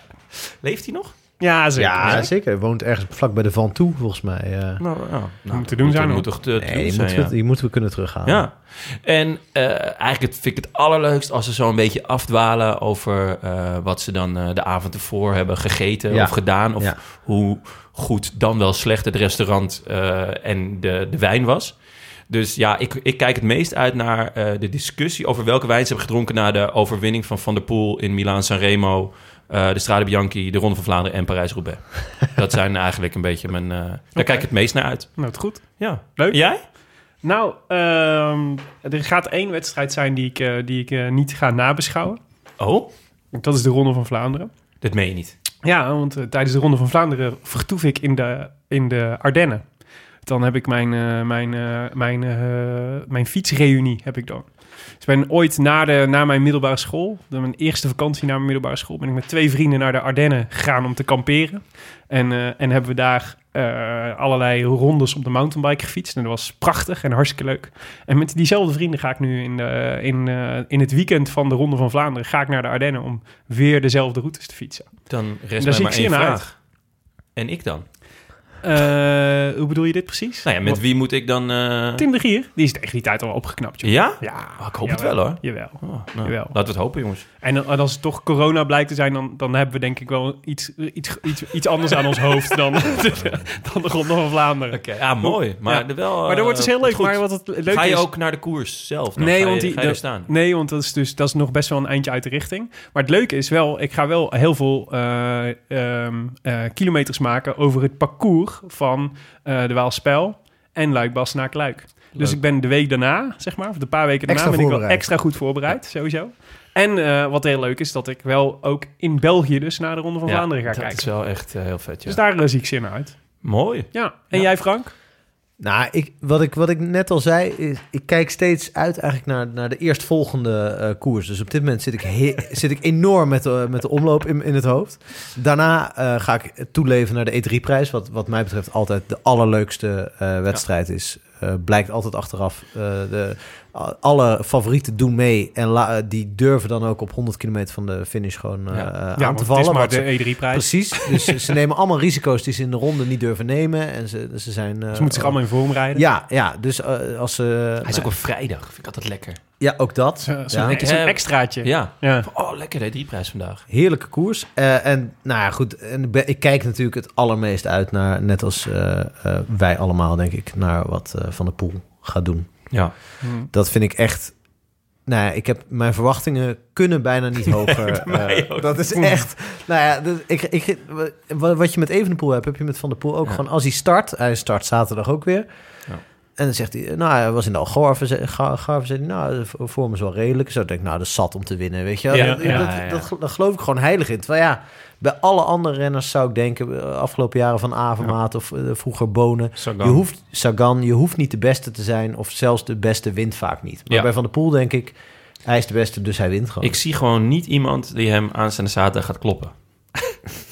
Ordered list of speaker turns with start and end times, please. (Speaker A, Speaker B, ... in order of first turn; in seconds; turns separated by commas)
Speaker A: 0.6-1.2, Speaker B: 1.4-2.3, Speaker C: 1.8-4.8, Speaker A: 2.0-2.3, Speaker A: 4.8-7.3, Speaker B: 5.5-6.3, Speaker C: 6.6-8.5, Speaker A: 8.2-21.8, Speaker C: 16.1-17.0, Speaker A: 22.3-36.6, Speaker B: 34.2-34.5, Speaker B: 35.2-36.4, Speaker B: 37.2-42.2, Speaker A: 42.6-42.9, Speaker B: 43.3-44.5, Speaker A: 44.8-45.4, Speaker B: 45.6-49.6, Speaker B: 50.3-74.9, Speaker A: 75.1-76.6, Speaker B: 75.6-76.5, Speaker A: 77.4-77.9, Speaker B: 78.6-80.8, Speaker A: 80.5-82.0, Speaker B: 82.0-86.6, Speaker A: 83.8-87.2, Speaker B: 87.4-98.1, Speaker A: 94.7-100.3, Speaker B: 99.2-121.1, Speaker C: 114.3-115.1, Speaker A: 120.3-122.2, Speaker B: 122.1-123.2, Speaker A: 123.4-124.5, Speaker B: 123.9-124.9, Speaker C: 125.6-158.1, Speaker B: 149.2-151.3, Speaker B: 154.9-156.0, Speaker A: 157.8-159.4, Speaker C: 159.6-160.8, Speaker B: 160.3-162.3, Speaker A: 160.7-163.6, Speaker C: 163.7-172.9, Speaker B: 173.2-173.5, Speaker C: 173.5-174.4, Speaker C: 175.1-185.5, Speaker A: 177.9-178.8, Speaker B: 178.9-179.2, Speaker C: 186.4-206.8, Speaker A: 192.1-193.1, Speaker B: 192.1-192.6, Speaker A: 199.6-200.0, Speaker A: 206.6-210.2